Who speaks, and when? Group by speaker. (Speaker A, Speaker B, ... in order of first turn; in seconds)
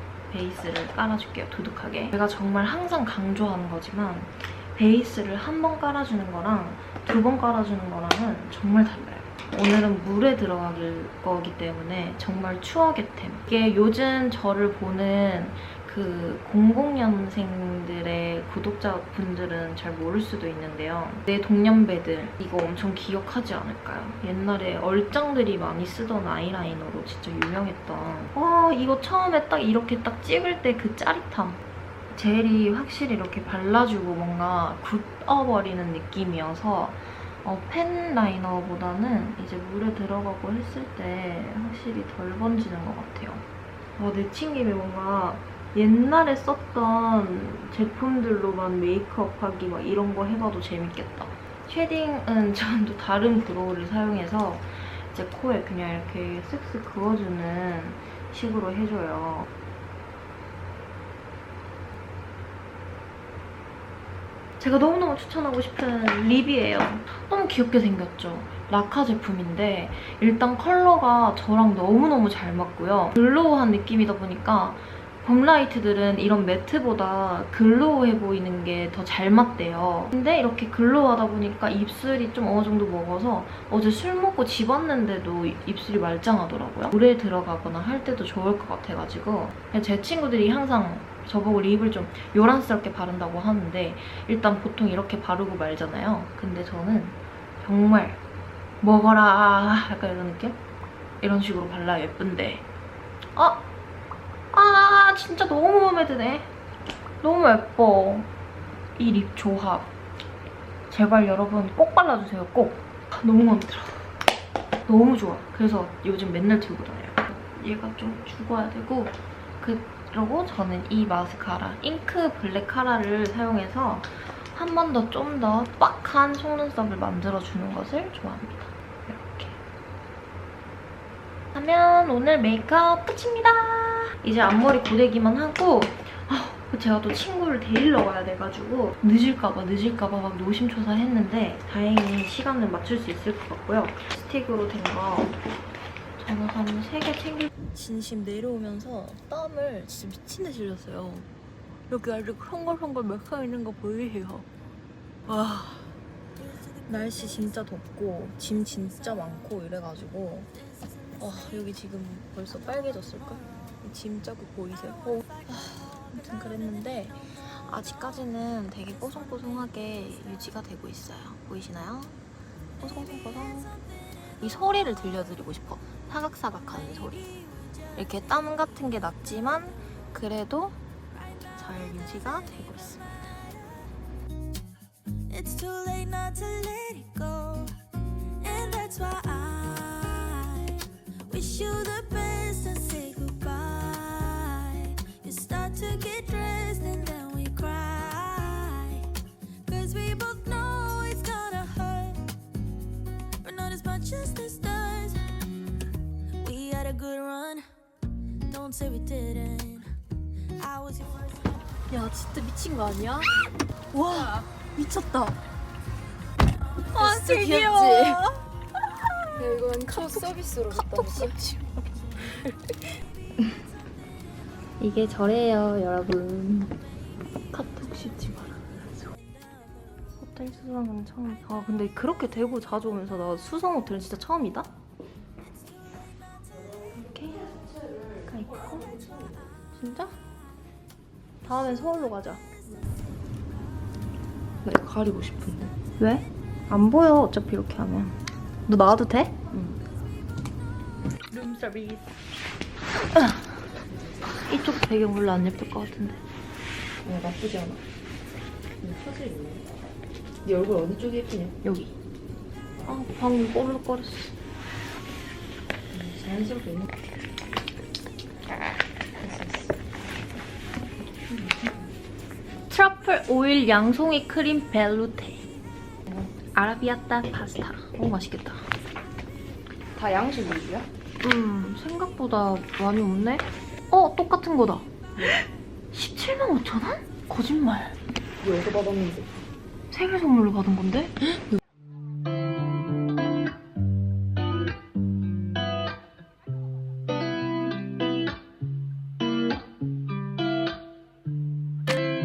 Speaker A: 0.3-43.4, 44.0-59.5, 64.6-98.2, 98.8-100.6, 101.2-102.6, 103.3-103.7, 104.5-106.5, 107.2-108.3, 109.0-109.9, 110.9-114.1, 114.9-129.6, 131.5-145.4, 146.2-151.3, 151.9-154.5, 155.3-155.9, 156.9-160.5, 161.2-172.2, 172.8-173.7, 174.4-177.3, 177.9-180.8, 181.6-183.0, 211.9-213.3, 213.9-215.4, 216.9-218.4, 219.0-219.3, 219.9-221.8, 224.8-226.8, 227.5-229.1, 230.2-234.7, 236.9-237.5, 238.3-238.9, 239.8-240.2, 241.4-242.4, 246.0-249.3, 251.3-252.1, 254.5-256.2, 261.6-261.9, 262.9-264.3, 272.7-275.4, 276.1-278.7, 281.2-288.0, 289.9-291.4
Speaker B: 185.3-187.7, 188.4-199.1, 199.7-202.2, 203.4-205.3, 206.4-207.7, 208.5-209.9, 210.6-211.3
Speaker C: 216.9-218.2, 219.4-221.4, 236.8-239.5, 244.6-245.7, 249.5-249.8, 257.0-257.8, 258.8-259.6, 260.4-261.6, 265.9-266.9, 269.2-269.8, 279.9-280.9, 288.4-289.3